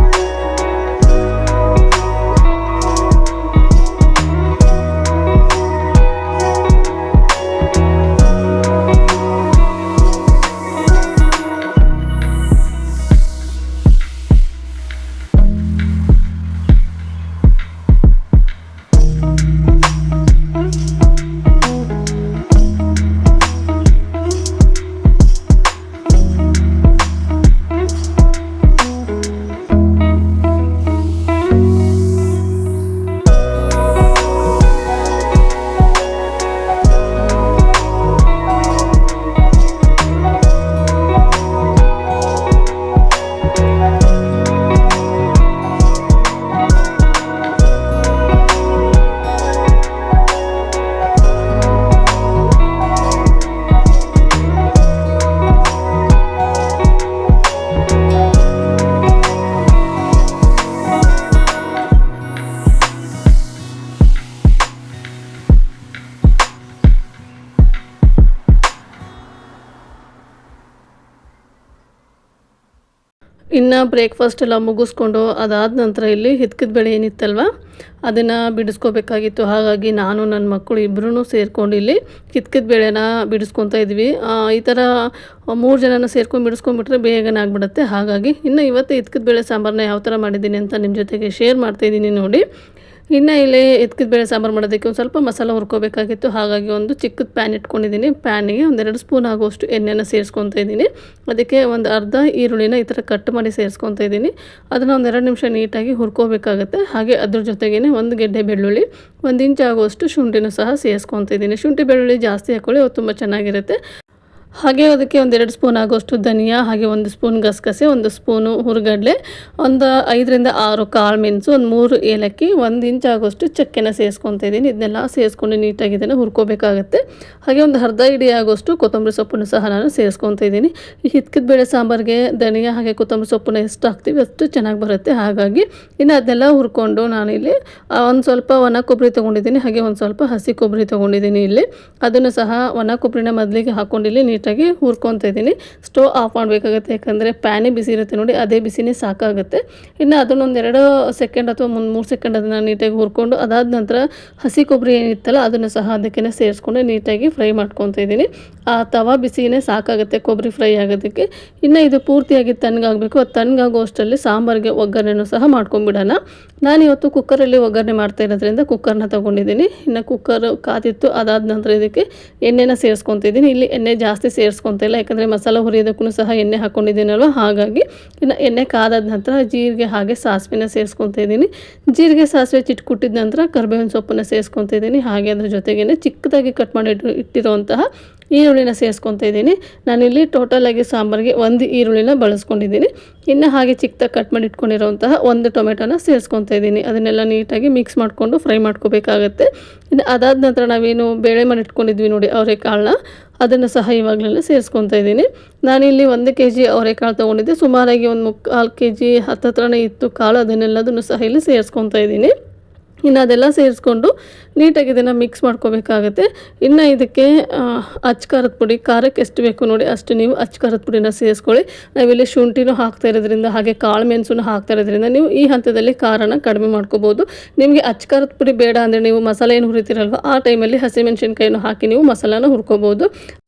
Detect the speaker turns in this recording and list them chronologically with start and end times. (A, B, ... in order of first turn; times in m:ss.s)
1:13.6-1:17.5 A
1:18.0-1:32.4 A
1:33.1-1:53.8 A
1:54.6-3:32.3 A
3:33.0-3:53.1 A